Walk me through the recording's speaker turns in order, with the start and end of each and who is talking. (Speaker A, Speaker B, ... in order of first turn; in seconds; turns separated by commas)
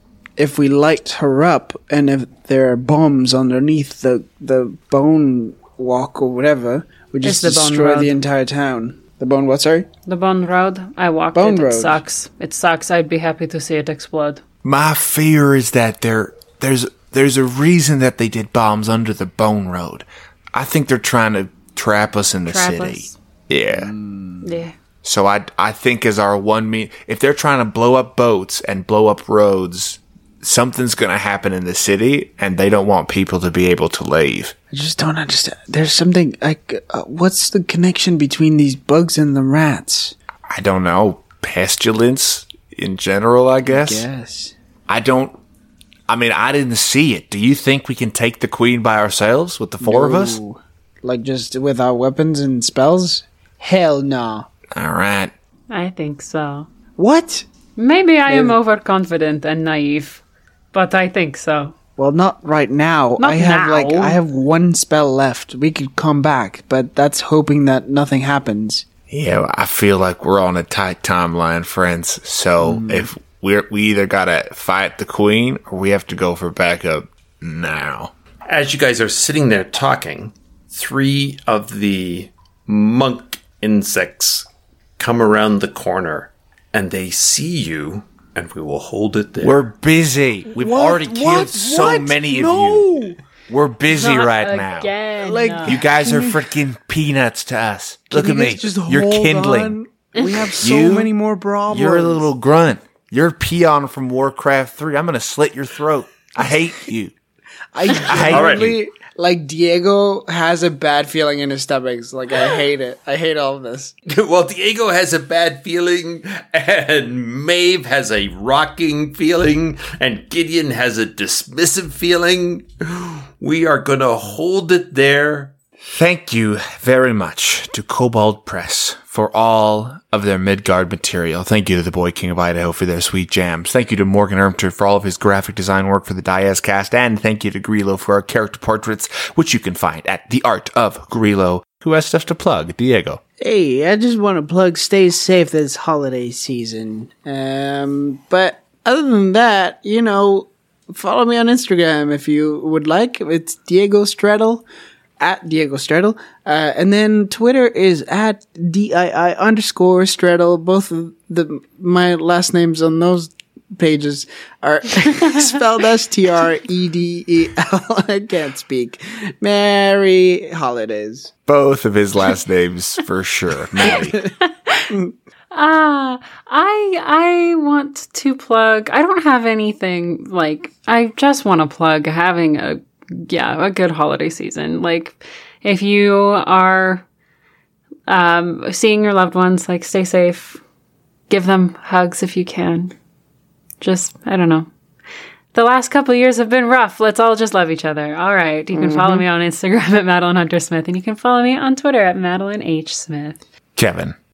Speaker A: 0.4-9.9, Speaker B: 7.2-8.2, Speaker B: 10.1-14.4, Speaker A: 11.3-12.0, Speaker C: 14.6-23.9, Speaker B: 22.5-23.1, Speaker A: 23.7-24.5, Speaker B: 24.4-24.7, Speaker C: 25.0-34.5, Speaker A: 34.7-40.1, Speaker C: 40.5-44.1, Speaker A: 43.6-44.5, Speaker C: 44.9-45.4, Speaker C: 46.1-50.4, Speaker A: 49.8-54.5, Speaker C: 54.7-55.3, Speaker B: 55.7-56.7, Speaker A: 57.0-57.5, Speaker B: 57.8-60.2, Speaker A: 58.3-58.6, Speaker B: 60.7-61.7, Speaker A: 62.0-68.9, Speaker B: 63.2-64.2, Speaker C: 69.1-78.1, Speaker A: 72.6-73.1, Speaker D: 78.5-84.5, Speaker D: 85.0-89.6, Speaker C: 89.4-94.9, Speaker A: 90.5-93.2, Speaker B: 93.9-95.8, Speaker A: 95.2-96.4, Speaker C: 95.6-99.8, Speaker A: 98.1-102.3, Speaker C: 100.6-101.1, Speaker C: 101.7-107.1, Speaker A: 107.7-113.9, Speaker C: 107.9-108.8, Speaker D: 108.3-108.8, Speaker D: 114.1-125.5, Speaker C: 125.9-143.2, Speaker A: 143.4-154.7, Speaker A: 155.2-171.3, Speaker C: 171.5-174.2, Speaker B: 175.5-187.1, Speaker B: 188.1-190.6, Speaker B: 191.3-192.9, Speaker B: 193.8-194.7, Speaker B: 195.5-203.4, Speaker A: 198.7-199.2, Speaker C: 203.8-204.2